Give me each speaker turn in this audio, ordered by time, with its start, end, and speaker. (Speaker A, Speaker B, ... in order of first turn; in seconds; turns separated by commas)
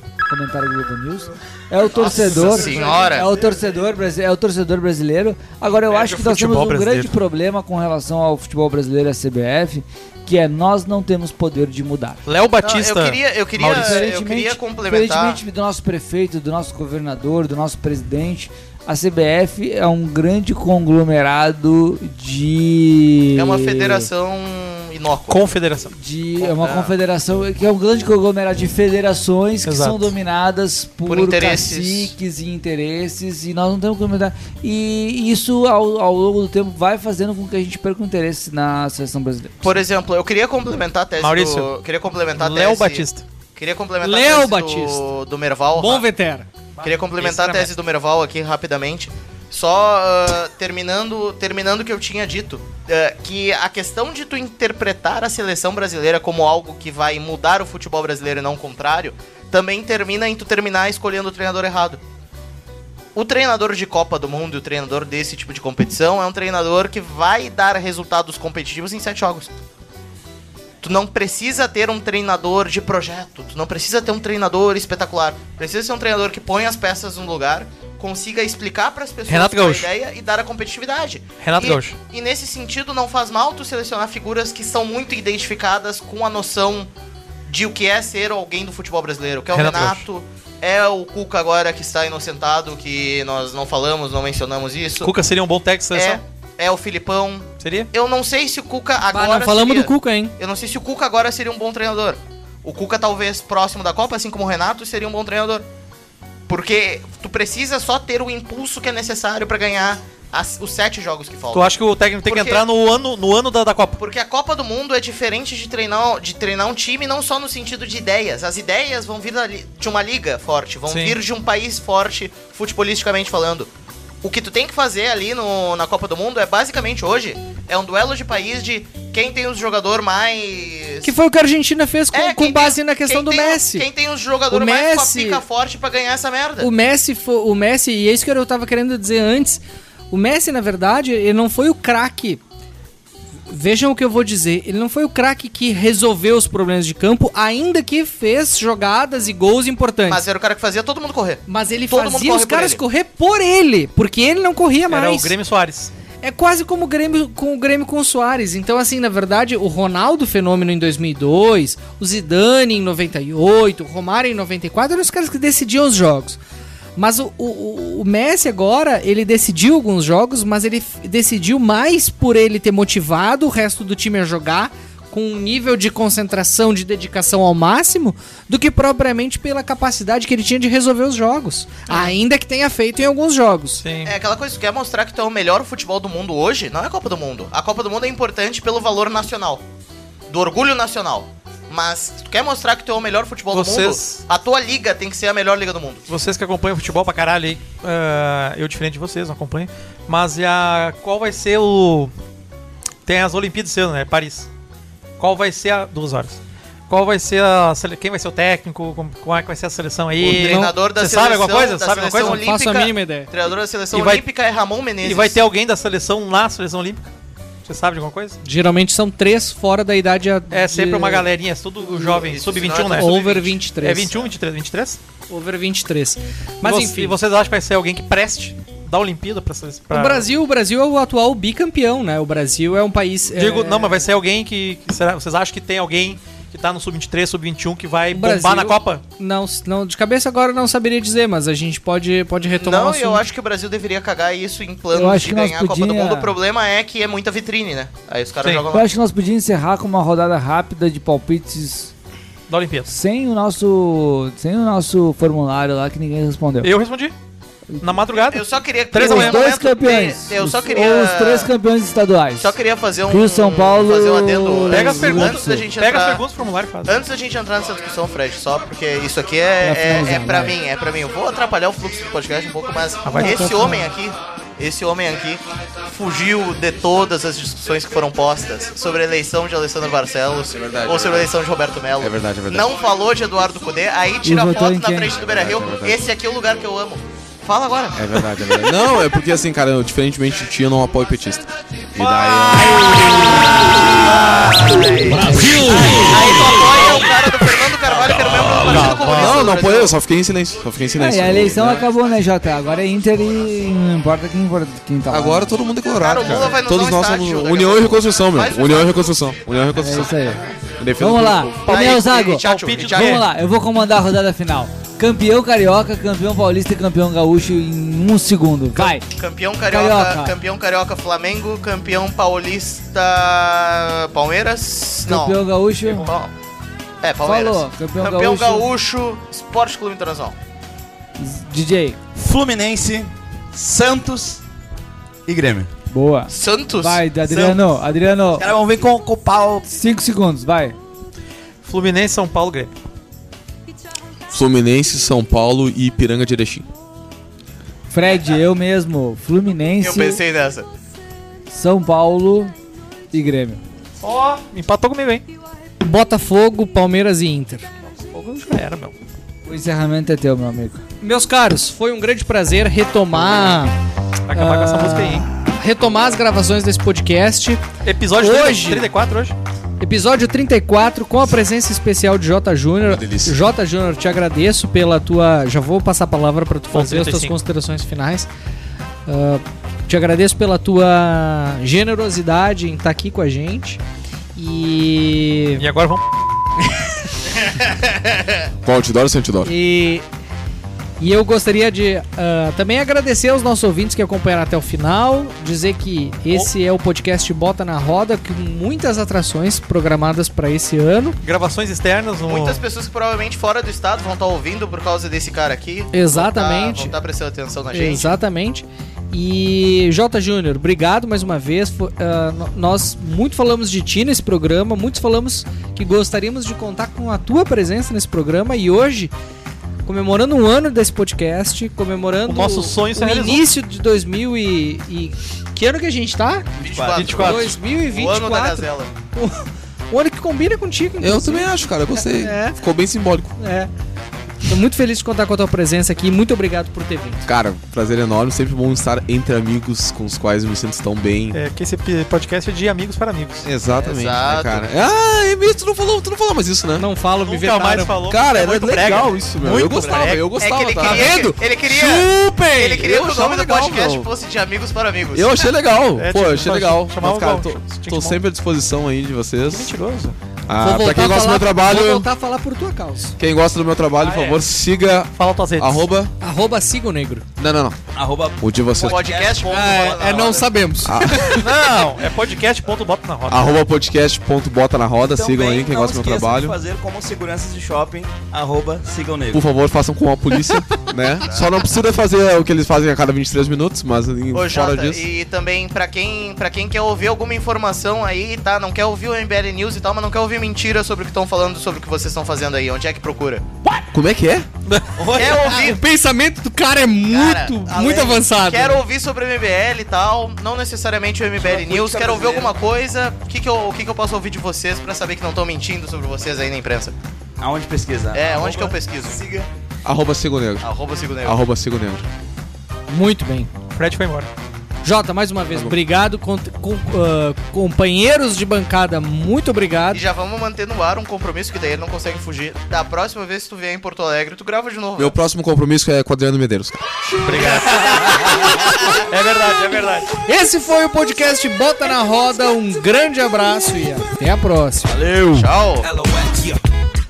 Speaker A: 0.3-12.2, Speaker B: 1.9-3.3, Speaker C: 5.9-7.1, Speaker C: 12.2-14.1, Speaker B: 12.6-15.4, Speaker A: 13.8-24.1, Speaker B: 23.4-25.5, Speaker C: 25.3-25.9, Speaker A: 25.9-39.8, Speaker B: 26.4-26.9, Speaker C: 29.7-30.1, Speaker B: 31.1-32.1, Speaker B: 39.6-46.1, Speaker C: 41.2-41.7, Speaker C: 42.4-43.2, Speaker D: 44.0-45.1, Speaker D: 45.8-46.5, Speaker C: 46.8-47.7, Speaker B: 46.8-62.0, Speaker B: 63.1-69.5, Speaker B: 70.8-86.9, Speaker C: 79.3-79.9, Speaker C: 81.4-82.0, Speaker B: 87.5-95.1, Speaker C: 89.5-90.0, Speaker C: 95.0-96.2, Speaker B: 95.9-105.7, Speaker C: 97.6-97.9, Speaker D: 99.1-100.3, Speaker B: 106.5-112.7, Speaker C: 111.5-114.0, Speaker B: 114.0-123.7, Speaker C: 120.9-121.2, Speaker B: 124.2-131.1, Speaker D: 131.0-133.9, Speaker B: 132.1-136.7, Speaker D: 134.5-135.4, Speaker D: 136.6-142.4, Speaker D: 143.5-150.2, Speaker B: 150.1-152.8, Speaker D: 151.5-155.3, Speaker C: 154.9-155.9, Speaker D: 156.2-166.4, Speaker D: 167.0-183.8, Speaker C: 183.8-184.1, Speaker B: 184.1-189.6, Speaker B: 190.3-196.1, Speaker C: 193.5-194.2, Speaker C: 196.1-202.1, Speaker C: 203.1-204.5, Speaker C: 205.2-212.4, Speaker B: 210.2-215.4, Speaker D: 210.4-210.7, Speaker D: 212.2-213.3, Speaker C: 213.9-214.2, Speaker C: 215.0-217.1, Speaker C: 217.7-218.4, Speaker D: 218.4-221.3, Speaker C: 220.5-225.0, Speaker B: 221.9-223.3, Speaker D: 222.9-224.2, Speaker D: 225.3-227.2, Speaker C: 226.6-230.3, Speaker D: 229.9-234.1, Speaker C: 233.3-239.0, Speaker D: 238.1-243.2, Speaker B: 242.5-248.9, Speaker A: 244.9-246.3, Speaker C: 248.4-248.7, Speaker A: 248.7-251.9, Speaker C: 252.5-252.9, Speaker A: 252.9-256.7, Speaker C: 256.6-257.1, Speaker A: 257.7-258.0, Speaker C: 257.8-259.5, Speaker B: 258.2-261.5, Speaker A: 258.9-262.5, Speaker B: 262.4-266.2, Speaker A: 263.1-265.7, Speaker C: 264.7-266.9, Speaker B: 266.9-288.2, Speaker A: 269.6-270.6, Speaker C: 273.1-273.6, Speaker D: 273.2-273.9, Speaker E: 280.5-281.3, Speaker E: 282.0-282.7, Speaker A: 284.2-285.2, Speaker E: 285.3-286.0, Speaker E: 287.9-293.7, Speaker B: 292.7-300.0, Speaker F: 295.1-296.8, Speaker A: 295.2-296.0, Speaker C: 298.3-299.5, Speaker E: 298.7-301.9, Speaker A: 301.0-305.6, Speaker E: 305.1-311.8, Speaker B: 306.0-309.2, Speaker A: 309.8-310.4, Speaker A: 311.0-319.0, Speaker B: 311.7-313.2, Speaker C: 312.4-313.3, Speaker B: 318.8-326.3, Speaker A: 319.7-320.3, Speaker A: 325.1-326.1, Speaker B: 327.0-330.4, Speaker A: 327.2-328.7, Speaker A: 331.2-332.0, Speaker F: 332.1-334.4, Speaker F: 335.3-335.7, Speaker A: 335.9-338.5, Speaker B: 336.3-337.6, Speaker F: 338.4-339.6, Speaker A: 339.6-340.8, Speaker C: 341.6-342.7, Speaker E: 344.3-346.7, Speaker A: 347.9-350.2, Speaker B: 349.8-350.7, Speaker A: 351.5-352.5, Speaker A: 353.1-353.6, Speaker C: 354.0-355.2, Speaker D: 355.8-357.7, Speaker C: 358.2-358.9, Speaker A: 359.5-360.9, Speaker D: 361.0-363.7, Speaker C: 364.3-365.3, Speaker D: 364.3-367.6, Speaker C: 367.8-369.4, Speaker D: 368.2-368.9, Speaker D: 369.8-378.3, Speaker E: 372.8-373.4, Speaker C: 376.7-377.4, Speaker D: 379.1-383.8, Speaker D: 384.4-385.7, Speaker C: 385.6-386.0, Speaker B: 387.5-388.5, Speaker E: 388.6-389.5, Speaker D: 389.4-390.0, Speaker D: 391.0-401.2, Speaker C: 401.2-402.6, Speaker B: 402.3-408.2, Speaker D: 405.9-406.9, Speaker D: 407.7-419.1, Speaker D: 419.9-426.5, Speaker C: 422.3-423.5, Speaker F: 426.6-427.1, Speaker B: 426.6-428.9, Speaker C: 426.9-427.6, Speaker D: 427.2-432.6, Speaker E: 431.0-433.4, Speaker D: 433.4-433.7, Speaker D: 434.4-437.3, Speaker E: 437.3-441.4, Speaker C: 441.3-443.5, Speaker E: 443.4-446.9, Speaker B: 443.8-444.7, Speaker D: 446.8-448.0, Speaker C: 447.2-451.2, Speaker E: 448.1-454.1, Speaker B: 449.6-455.3, Speaker E: 455.1-459.7, Speaker C: 456.0-458.2, Speaker C: 459.4-460.1, Speaker E: 460.5-462.1, Speaker D: 460.6-463.1, Speaker E: 463.2-466.1, Speaker C: 464.0-464.4, Speaker C: 465.1-465.9, Speaker D: 466.2-467.2, Speaker E: 467.4-467.8, Speaker F: 467.9-469.9, Speaker E: 468.4-469.3, Speaker B: 468.7-470.5, Speaker D: 469.5-471.3, Speaker E: 470.8-471.5, Speaker C: 471.3-473.6, Speaker E: 473.3-476.6, Speaker F: 475.1-479.4, Speaker E: 479.3-485.1, Speaker B: 481.2-481.5, Speaker B: 484.3-493.4, Speaker E: 493.9-494.5, Speaker F: 494.9-495.8, Speaker B: 495.1-495.8, Speaker D: 495.3-498.8, Speaker B: 497.1-506.9, Speaker F: 501.4-502.6, Speaker F: 507.4-509.5, Speaker B: 508.1-509.2, Speaker E: 509.9-510.7, Speaker B: 510.6-511.4, Speaker E: 511.2-512.1, Speaker D: 512.9-513.5, Speaker C: 513.7-514.3, Speaker D: 514.9-520.0, Speaker B: 519.9-525.1, Speaker E: 525.0-526.8, Speaker C: 527.2-530.1, Speaker D: 530.2-534.9, Speaker F: 534.8-536.6, Speaker B: 535.3-535.9